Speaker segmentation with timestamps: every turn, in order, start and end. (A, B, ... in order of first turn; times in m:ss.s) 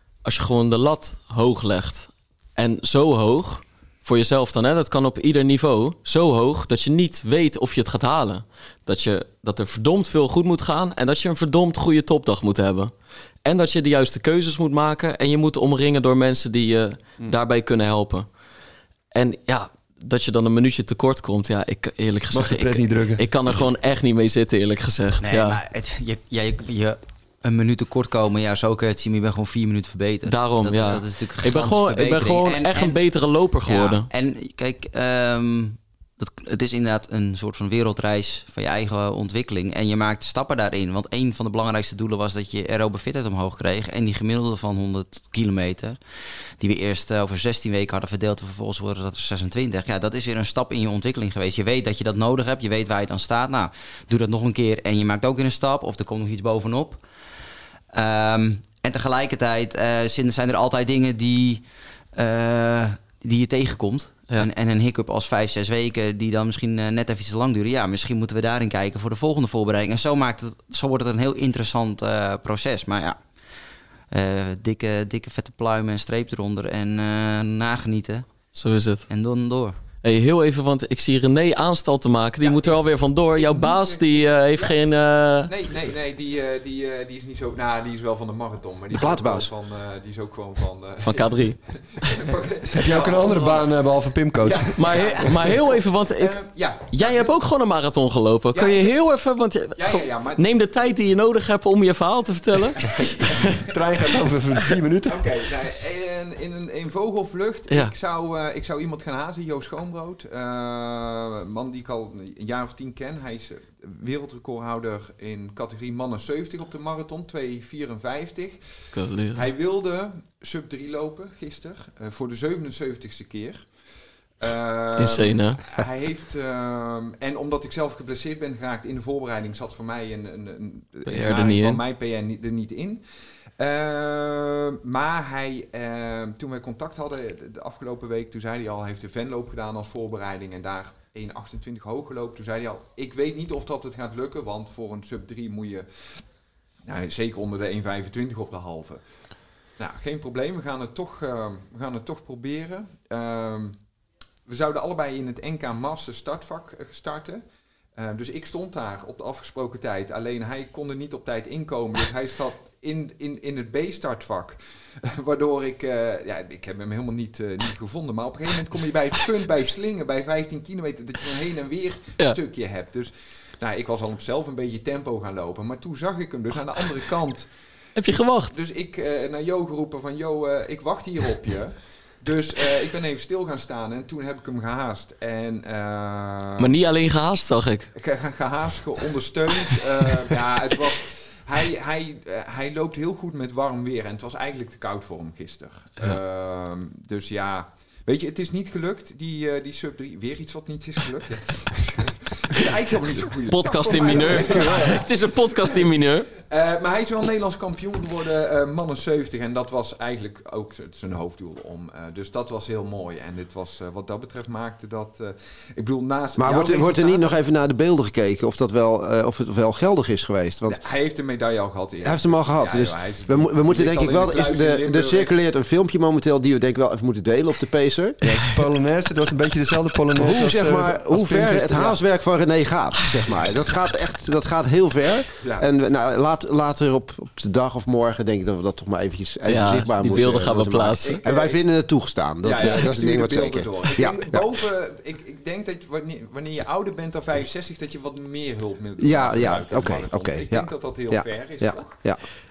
0:00.2-0:12.9 A
0:13.4-0:18.3 A
0:19.1-0:25.6 A
0:22.3-0:23.2 B
0:25.2-0:33.1 C
0:30.2-0:34.1 A
0:33.6-0:46.0 C
0:46.6-0:57.0 C
0:57.9-1:13.5 C
1:14.1-1:18.3 C
1:18.5-1:19.1 A
1:19.1-1:19.8 C
1:20.0-1:25.5 A
1:22.4-1:24.8 D
1:25.4-1:37.3 D
1:28.9-1:29.5 E
1:31.0-1:32.2 A
1:32.7-1:34.8 B
1:34.8-1:43.4 A
1:38.5-1:38.9 D
1:39.8-1:40.5 D
1:42.9-1:43.4 D
1:43.0-1:45.2 B
1:45.1-2:26.3 D
1:58.9-1:59.4 A
2:05.0-2:05.6 A
2:11.1-2:11.8 A
2:26.8-2:33.9 D
2:34.4-2:37.4 D
2:37.9-2:57.5 D
2:57.9-2:58.5 A
2:58.1-3:06.7 D
3:06.6-3:07.9 A
3:07.9-3:25.8 D
3:23.5-3:26.3 A
3:26.4-3:37.3 D
3:36.4-3:40.8 E
3:40.6-3:45.3 D
3:42.0-3:48.2 E
3:48.2-3:52.0 B
3:50.2-4:04.4 E
3:55.4-3:55.7 D
3:59.4-4:01.2 A
4:01.0-4:01.6 D
4:02.4-4:12.1 D
4:09.0-4:12.2 E